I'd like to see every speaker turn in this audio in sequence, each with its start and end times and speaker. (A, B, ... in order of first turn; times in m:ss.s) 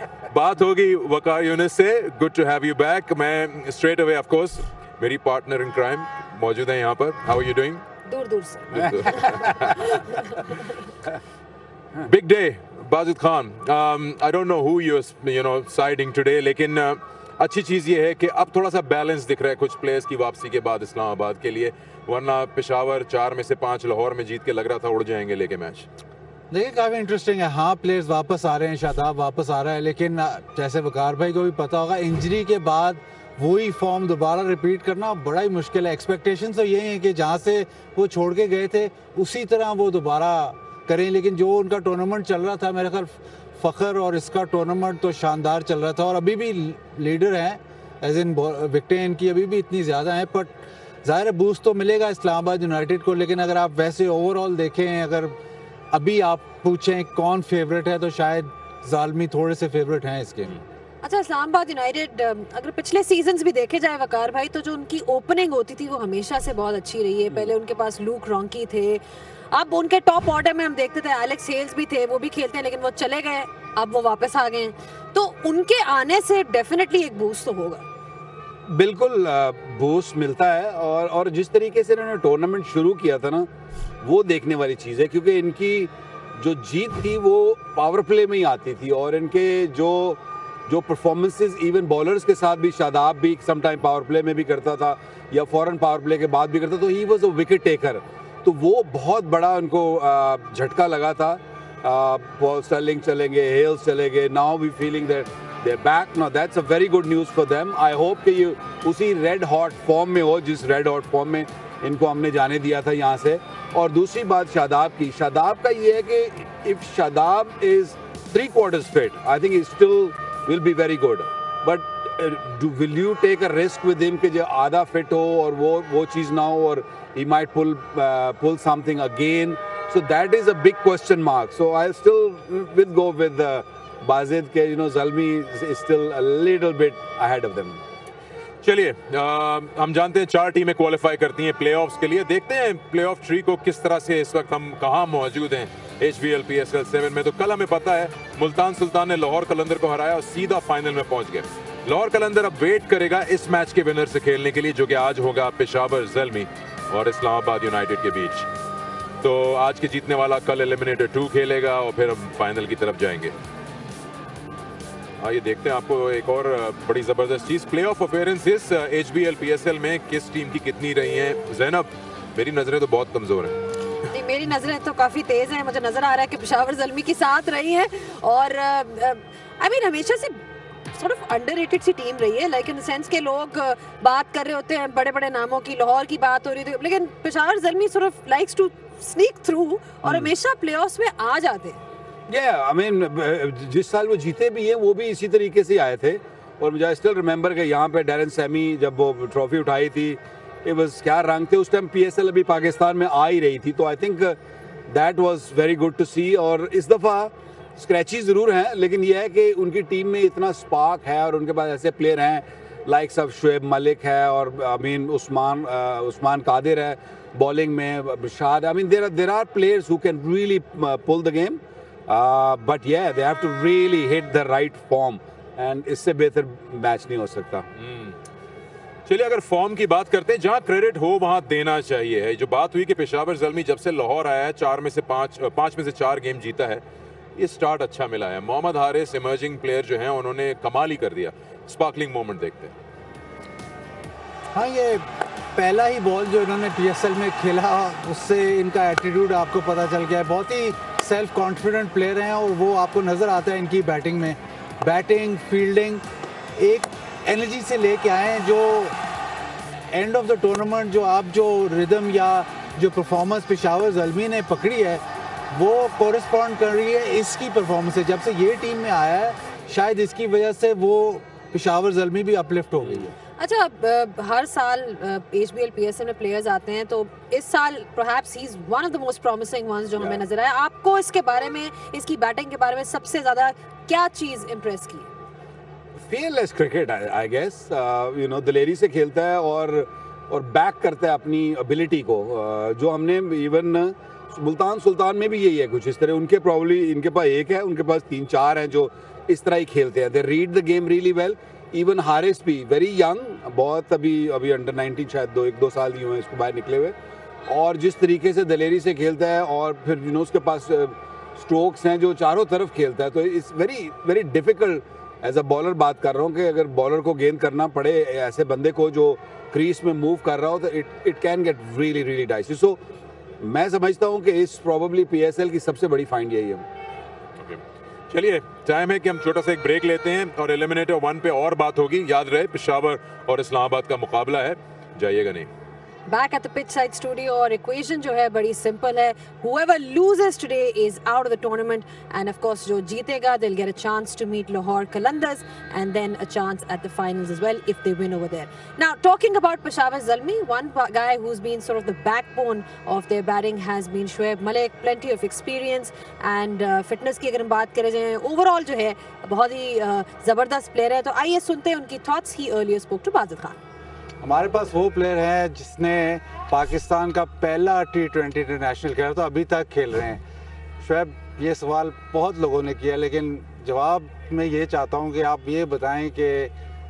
0:00.3-0:07.8 A
0:08.0-0:09.3 B
0:08.7-0:10.0 A
0:09.9-0:10.2 B
0:12.0-0:25.9 A
0:26.5-0:55.4 C
0:55.9-1:00.6 C
1:01.0-1:17.8 B
1:18.7-1:23.5 D
1:24.0-2:17.8 D
2:18.6-2:38.5 A
2:39.2-2:43.3 A
2:45.2-2:53.5 A
2:54.1-3:00.4 B
3:00.9-3:11.8 B
3:10.0-3:10.3 D
3:12.3-3:24.4 D
3:24.9-3:47.7 D
3:47.8-3:48.1 A
3:49.0-3:56.8 A
3:57.4-4:02.7 A
4:04.5-4:16.0 C
4:16.6-4:19.0 C
4:19.9-4:33.1 C
4:33.4-4:45.1 B
4:40.0-4:40.2 D
4:46.0-5:07.0 D
5:07.5-5:22.8 D
5:23.4-5:26.6 D
5:27.4-5:35.5 A
5:36.1-6:03.6 B
6:04.2-6:10.2 C
6:10.8-6:16.5 C